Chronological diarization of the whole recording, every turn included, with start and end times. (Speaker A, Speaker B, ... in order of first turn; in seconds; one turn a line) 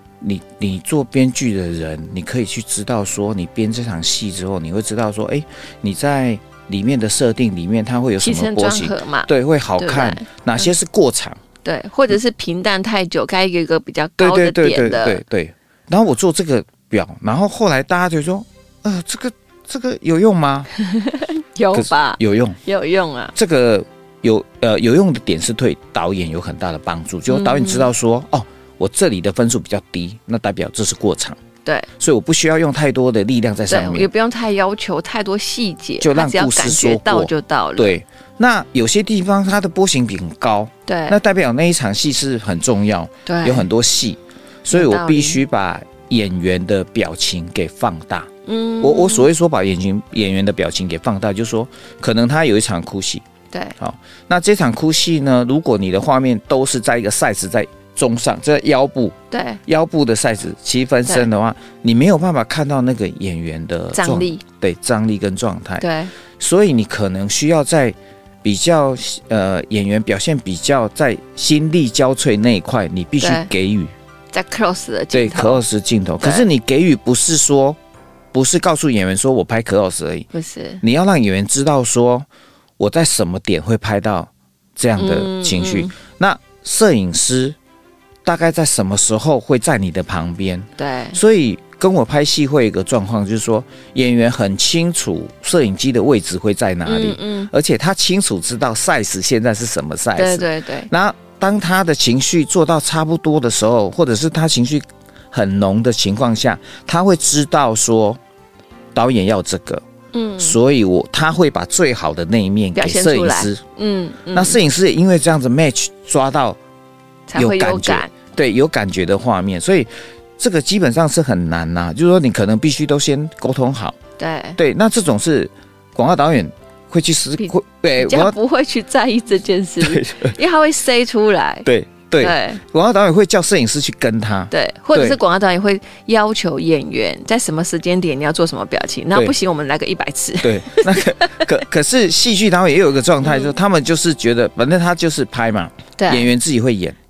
Speaker A: 0.2-11.4
Speaker B: 8.2-10.7
Speaker B: 11.6-15.2
Speaker A: 14.2-20.7
Speaker B: 20.8-23.3
Speaker A: 21.7-22.6
Speaker A: 23.4-31.4
Speaker B: 27.3-27.9
Speaker A: 32.0-34.1
Speaker B: 33.7-38.0
Speaker A: 36.0-53.2
Speaker B: 40.9-41.2
Speaker B: 43.3-43.7
Speaker B: 44.7-45.4
Speaker B: 48.5-49.3
Speaker B: 53.5-53.8
Speaker A: 53.8-65.8
Speaker B: 59.3-59.6
Speaker B: 63.9-64.4
Speaker B: 65.8-66.1
Speaker A: 66.4-73.9
Speaker B: 73.2-73.5
Speaker B: 74.3-75.6
Speaker A: 75.1-77.8
Speaker B: 76.2-76.5
Speaker A: 78.3-80.3
Speaker B: 80.3-80.8
Speaker A: 80.8-82.3
Speaker A: 82.8-87.6
Speaker B: 85.0-85.9
Speaker A: 88.2-108.2
Speaker B: 90.8-91.2
Speaker B: 96.9-97.5
Speaker B: 100.2-100.9
Speaker A: 108.9-109.8
Speaker B: 110.1-110.6
Speaker A: 110.4-113.6
Speaker B: 112.8-114.6
Speaker A: 114.3-116.6
Speaker B: 117.3-118.1
Speaker A: 117.3-124.0
Speaker B: 124.2-124.6
Speaker A: 124.6-128.4
Speaker B: 127.4-131.7
Speaker A: 129.8-130.4
Speaker A: 131.7-135.2
Speaker B: 132.2-132.6
Speaker B: 134.5-141.5
Speaker A: 140.4-147.0
Speaker B: 143.2-143.5
Speaker B: 146.0-146.3